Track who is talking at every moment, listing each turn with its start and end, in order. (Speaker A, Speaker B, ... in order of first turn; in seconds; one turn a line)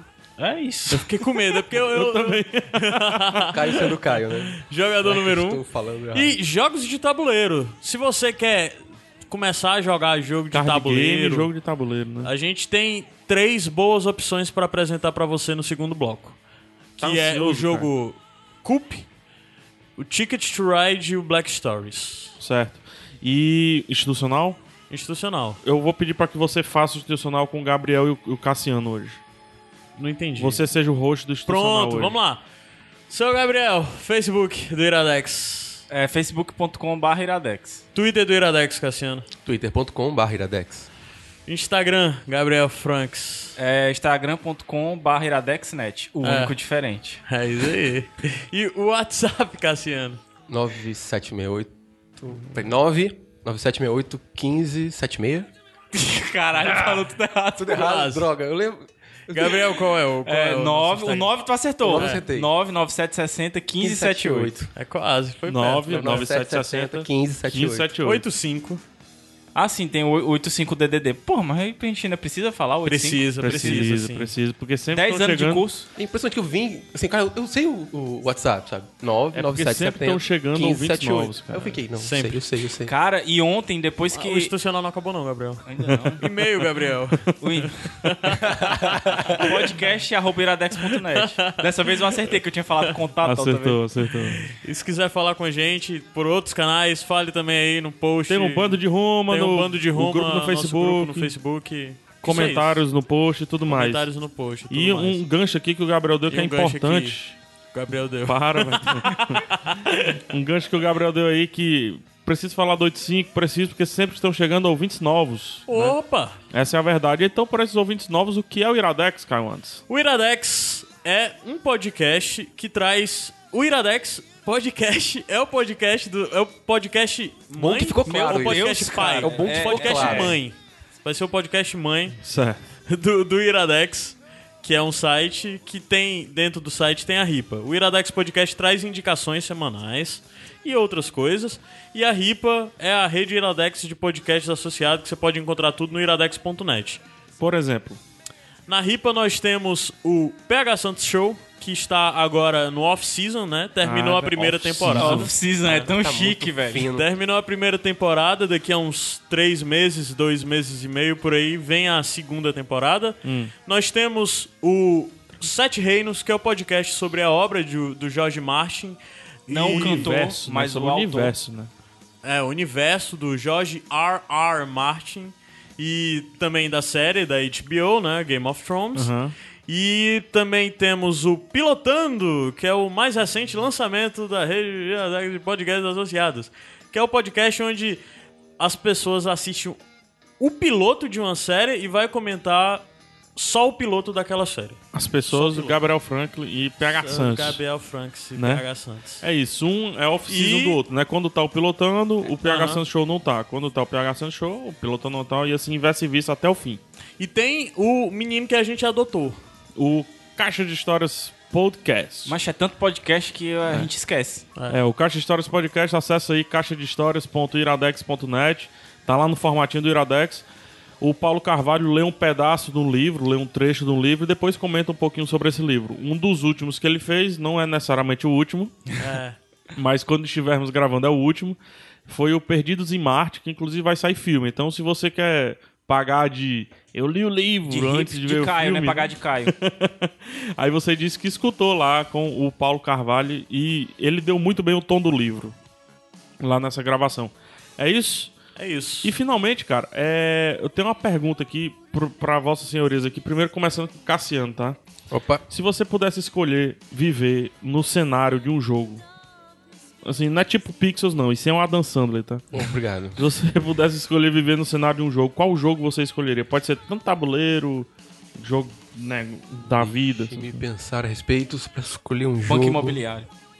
Speaker A: 0.4-0.8
Speaker B: 0.8-11.5
Speaker C: 0.9-3.6
Speaker D: 3.4-6.3
Speaker C: 10.5-12.3
Speaker B: 12.2-16.4
Speaker B: 17.0-19.0
Speaker C: 17.0-17.9
Speaker B: 20.0-22.3
Speaker C: 22.4-24.6
Speaker B: 24.9-25.6
Speaker C: 25.6-29.2
Speaker B: 30.0-30.7
Speaker C: 30.4-32.1
Speaker B: 31.5-32.4
Speaker B: 33.1-35.8
Speaker A: 35.9-37.8
Speaker B: 37.9-39.3
Speaker D: 39.4-40.9
Speaker B: 41.5-43.6
Speaker A: 43.6-47.2
Speaker B: 46.2-46.6
Speaker B: 47.2-50.2
Speaker D: 50.5-55.5
Speaker A: 55.9-57.9
Speaker D: 57.6-59.8
Speaker B: 57.7-58.3
Speaker B: 59.3-61.3
Speaker A: 60.2-64.5
Speaker D: 61.8-62.5
Speaker B: 61.9-62.2
Speaker D: 63.8-64.7
Speaker B: 64.7-66.2
Speaker C: 65.5-68.2
Speaker D: 65.8-67.9
Speaker B: 68.0-68.8
Speaker A: 69.5-73.9
Speaker B: 72.8-74.3
Speaker C: 73.4-75.7
Speaker A: 74.9-75.9
Speaker D: 76.0-82.9
Speaker C: 79.3-81.8
Speaker B: 82.0-82.4
Speaker A: 82.8-84.5
Speaker B: 84.1-85.6
Speaker A: 85.7-86.2
Speaker B: 86.2-88.6
Speaker A: 87.4-87.8
Speaker D: 88.5-89.2
Speaker A: 89.3-93.8
Speaker B: 91.2-91.9
Speaker C: 93.2-94.5
Speaker B: 94.1-102.8
Speaker C: 98.3-101.3
Speaker C: 102.2-104.1
Speaker B: 103.7-105.2
Speaker C: 104.7-107.4
Speaker B: 106.3-107.2
Speaker B: 107.7-110.0
Speaker C: 108.2-116.0
Speaker B: 115.7-116.3
Speaker C: 116.5-119.8
Speaker B: 119.9-132.2
Speaker D: 127.6-130.4
Speaker A: 128.1-130.3
Speaker C: 132.2-132.6
Speaker B: 132.8-147.0
Speaker C: 147.4-148.0
Speaker B: 148.7-155.3
Speaker C: 153.8-155.3
Speaker A: 154.9-156.9
Speaker D: 155.6-157.1
Speaker B: 156.9-170.1
Speaker C: 163.2-163.5
Speaker A: 169.5-171.3
Speaker C: 169.5-171.7
Speaker B: 172.2-179.1
Speaker C: 178.9-179.3
Speaker B: 179.7-188.0
Speaker B: 188.6-189.8
Speaker B: 190.4-195.8
Speaker C: 194.9-197.6
Speaker B: 196.8-199.2
Speaker C: 198.3-198.6
Speaker C: 199.2-206.8
Speaker B: 200.3-200.8
Speaker B: 202.4-202.8
Speaker B: 207.2-209.4
Speaker C: 209.8-212.3
Speaker A: 212.2-214.4
Speaker C: 214.7-220.4
Speaker C: 221.0-228.8
Speaker B: 228.9-229.4
Speaker C: 229.7-245.5
Speaker A: 237.7-239.5
Speaker C: 246.4-248.3
Speaker B: 248.6-249.1
Speaker C: 249.0-254.8
Speaker D: 255.1-255.4
Speaker C: 255.5-259.0
Speaker C: 260.0-270.6
Speaker D: 262.5-263.2
Speaker D: 270.3-273.0
Speaker A: 272.4-273.3